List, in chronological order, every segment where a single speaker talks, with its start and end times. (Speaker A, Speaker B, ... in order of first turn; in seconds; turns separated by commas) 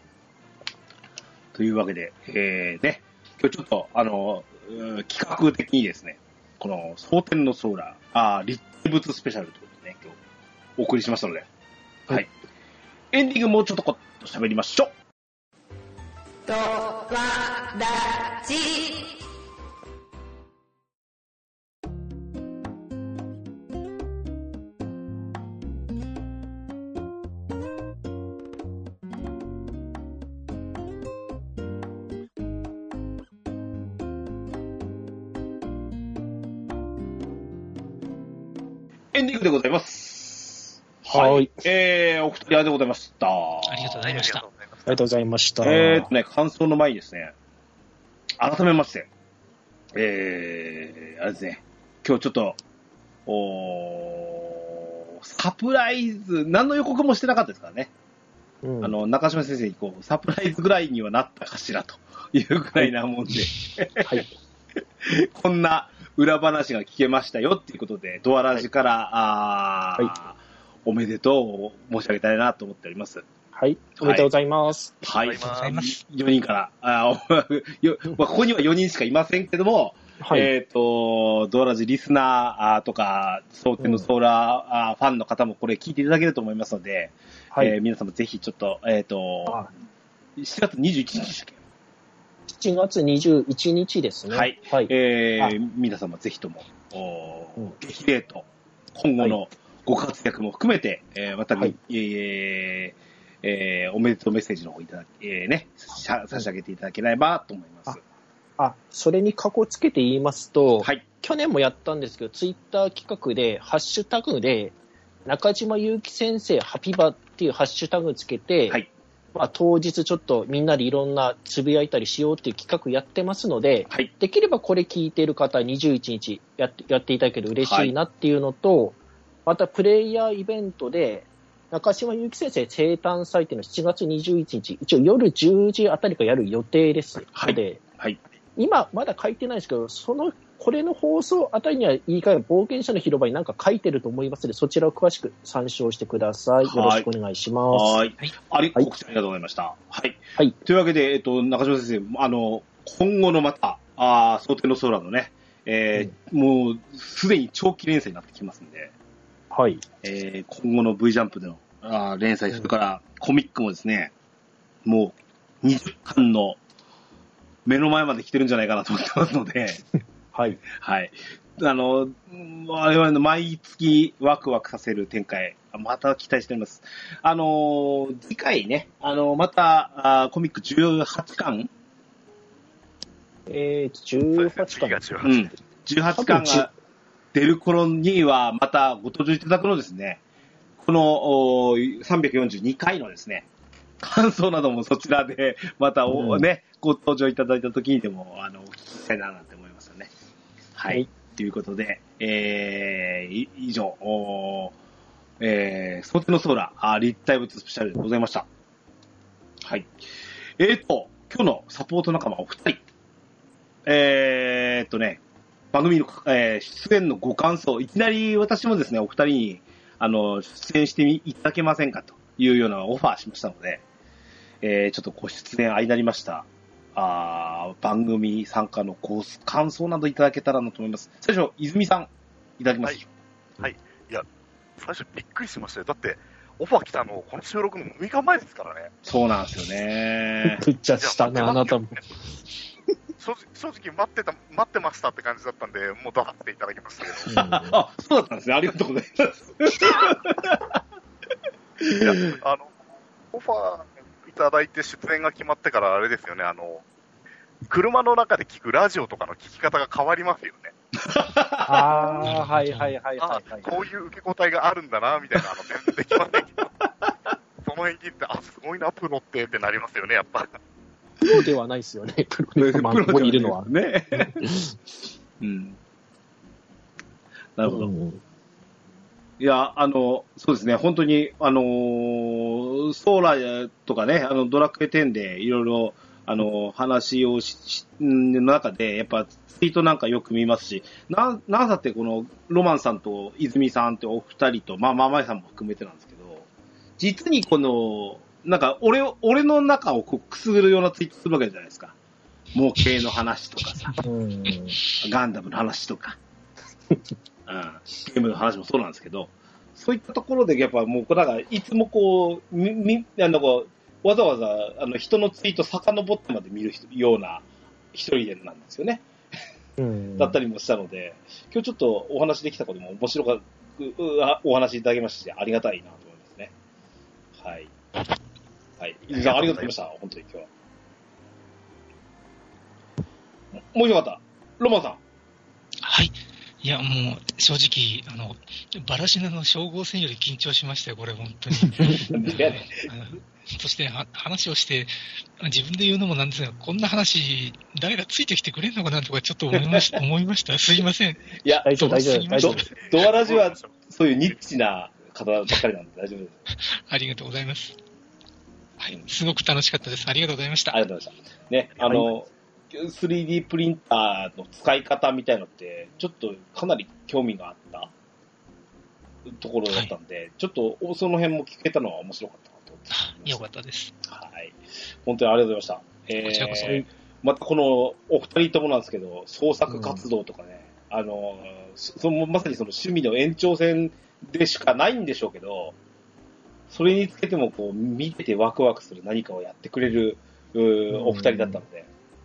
Speaker A: 1.5-10.2, Speaker A: 10.8-11.5, Speaker A: 13.1-14.9, Speaker B: 16.5-19.2, Speaker A: 39.1-44.1, Speaker C: 41.1-41.6, Speaker D: 43.7-44.4, Speaker E: 44.0-45.0, Speaker C: 44.9-46.1, Speaker A: 45.6-47.4, Speaker A: 48.4-49.1, Speaker A: 49.9-52.6, Speaker A: 53.3-57.9, Speaker C: 58.6-59.0, Speaker A: 58.8-64.2, Speaker C: 64.0-64.3, Speaker A: 65.0-73.2, Speaker C: 73.5-75.0, Speaker A: 74.0-74.3, Speaker A: 75.0-89.6, Speaker E: 75.2-75.9, Speaker D: 75.4-76.0, Speaker C: 80.2-80.5, Speaker C: 83.8-84.1, Speaker A: 90.4-91.6, Speaker C: 92.5-95.5, Speaker A: 94.3-108.0, Speaker C: 108.6-118.8, Speaker C: 119.3-137.8, Speaker A: 127.6-127.9, Speaker A: 137.3-138.2, Speaker C: 138.6-148.0, Speaker A: 146.6-147.1, Speaker A: 147.7-158.9, Speaker C: 159.5-159.8, Speaker A: 160.0-164.1, Speaker A: 164.8-166.6, Speaker A: 167.7-169.8, Speaker C: 170.3-170.6, Speaker A: 170.8-181.7, Speaker C: 183.5-185.4, Speaker E: 184.3-185.5, Speaker A: 185.2-186.7, Speaker C: 186.2-186.7, Speaker A: 187.3-190.2, Speaker A: 190.8-193.5, Speaker A: 194.0-200.1, Speaker C: 196.1-196.5, Speaker A: 200.8-204.8, Speaker A: 205.4-208.5, Speaker A: 209.6-209.9, Speaker A: 210.6-212.8, Speaker A: 213.9-215.2, Speaker A: 215.7-223.8, Speaker A: 224.6-233.1, Speaker E: 233.6-234.3, Speaker E: 234.8-238.9, Speaker A: 239.1-240.7, Speaker C: 240.4-242.0, Speaker E: 241.0-242.0, Speaker E: 243.2-247.3, Speaker A: 247.2-250.8, Speaker C: 247.3-247.8, Speaker E: 252.0-252.8, Speaker E: 253.3-256.8, Speaker E: 257.7-260.7, Speaker A: 261.1-262.3, Speaker C: 261.7-263.7, Speaker D: 262.2-262.9, Speaker E: 263.2-266.7, Speaker E: 267.6-270.5, Speaker C: 271.2-274.8, Speaker A: 272.6-274.4, Speaker A: 275.4-275.8, Speaker A: 277.6-277.9, Speaker C: 277.7-278.2, Speaker A: 279.4-296.4, Speaker A: 297.0-301.9, Speaker A: 302.6-304.0, Speaker C: 304.0-304.8, Speaker A: 305.0-306.2, Speaker A: 307.5-319.1, Speaker C: 319.8-320.4, Speaker A: 320.2-326.5, Speaker A: 327.4-327.7, Speaker A: 328.8-330.5, Speaker E: 329.1-329.7, Speaker A: 333.7-335.0, Speaker D: 335.8-352.7, Speaker C: 341.6-342.1, Speaker A: 342.0-342.9, Speaker A: 349.5-350.0, Speaker A: 351.4-351.7, Speaker C: 351.6-352.7, Speaker A: 352.4-356.4, Speaker E: 352.8-353.7, Speaker D: 356.5-357.8, Speaker D: 358.9-360.8, Speaker A: 360.7-367.9, Speaker A: 369.3-373.5, Speaker D: 372.9-373.9, Speaker A: 374.0-385.8, Speaker D: 376.2-376.9, Speaker C: 379.7-380.0, Speaker A: 386.7-391.9, Speaker C: 390.9-391.6